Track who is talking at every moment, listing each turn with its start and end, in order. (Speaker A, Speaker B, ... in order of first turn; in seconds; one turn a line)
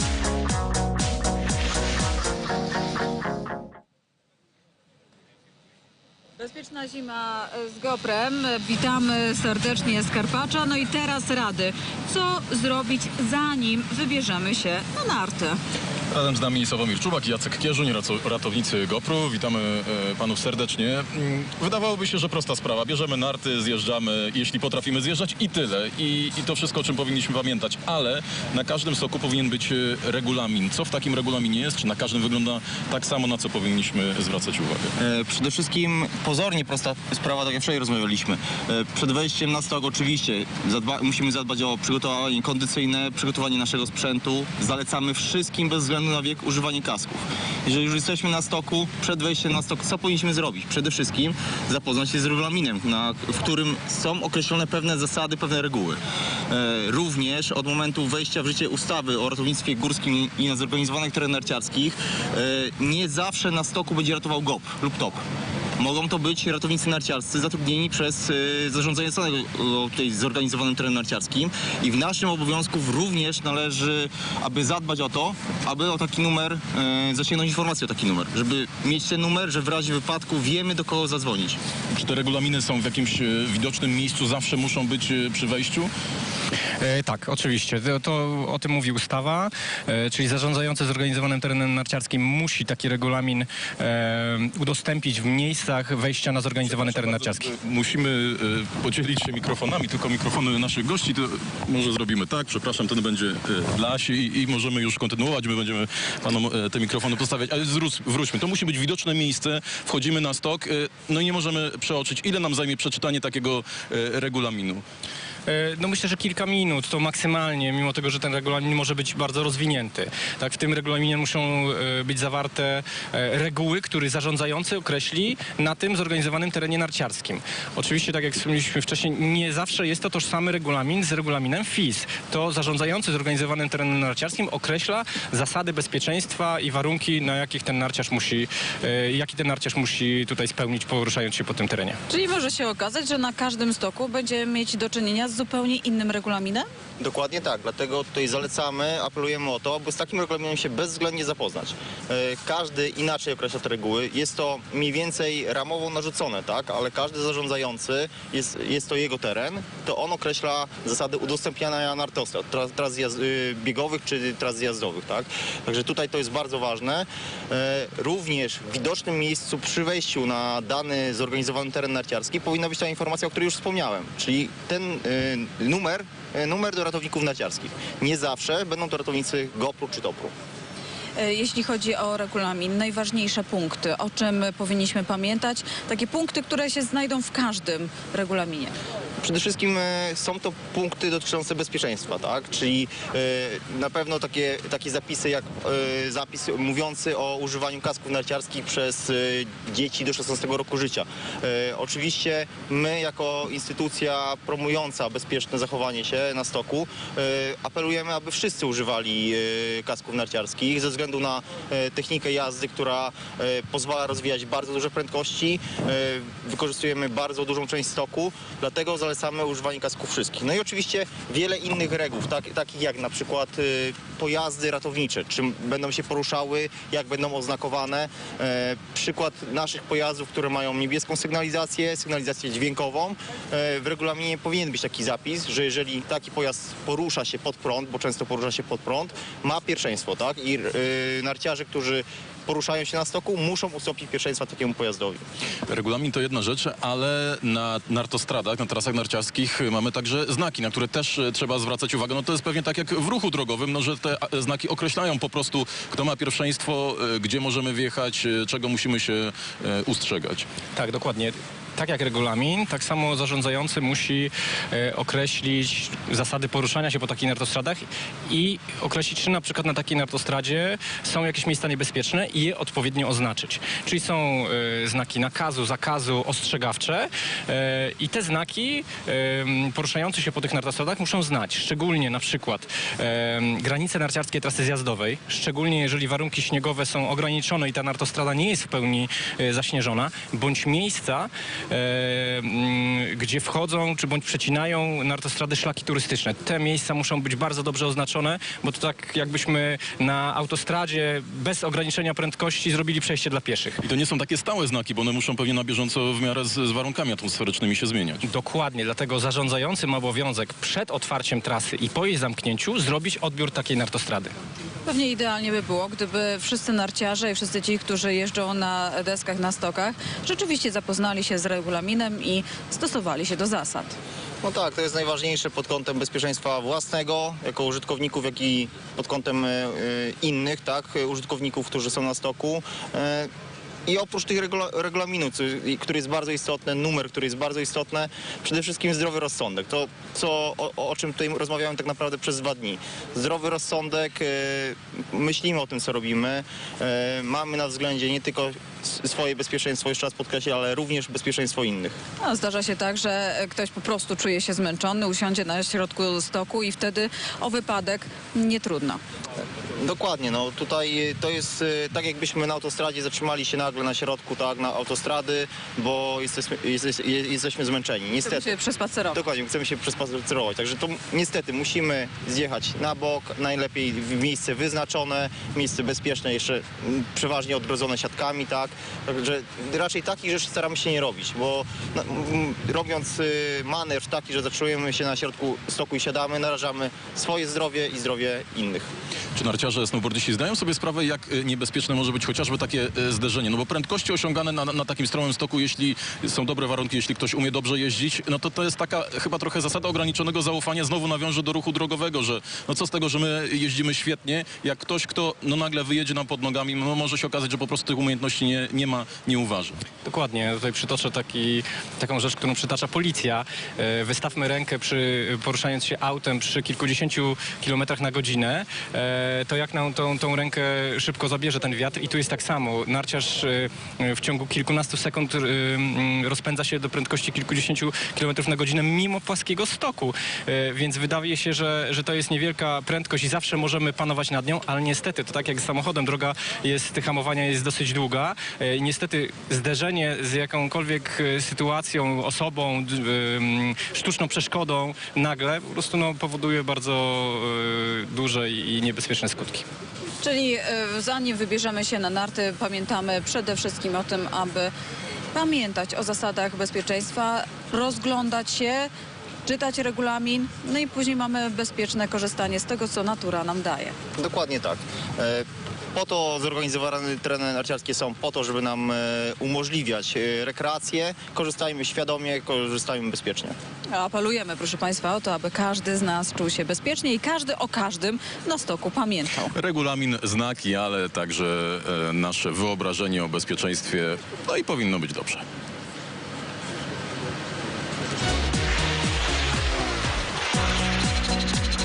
Speaker A: 6.4-15.6
Speaker B: 16.1-34.9
Speaker C: 35.0-65.2
Speaker C: 65.8-81.6
Speaker B: 81.9-85.9
Speaker D: 86.8-97.5
Speaker B: 96.7-114.8
Speaker D: 115.5-142.0
Speaker A: 142.1-146.7
Speaker C: 147.0-180.3
Speaker A: 181.2-188.7
Speaker C: 189.2-245.2
Speaker B: 245.7-260.4
Speaker D: 260.7-303.8
Speaker B: 303.8-308.2
Speaker D: 308.2-314.3
Speaker A: 314.9-323.9
Speaker C: 324.4-333.3
Speaker C: 333.9-352.0
Speaker A: 352.2-359.0
Speaker C: 359.8-368.5
Speaker A: 368.2-369.2
Speaker C: 369.1-388.9
Speaker B: 389.3-409.8
Speaker D: 410.0-449.7
Speaker A: 450.2-454.7
Speaker A: 455.3-458.9
Speaker A: 459.4-464.0
Speaker C: 464.2-473.6
Speaker A: 473.9-479.5
Speaker B: 479.5-485.4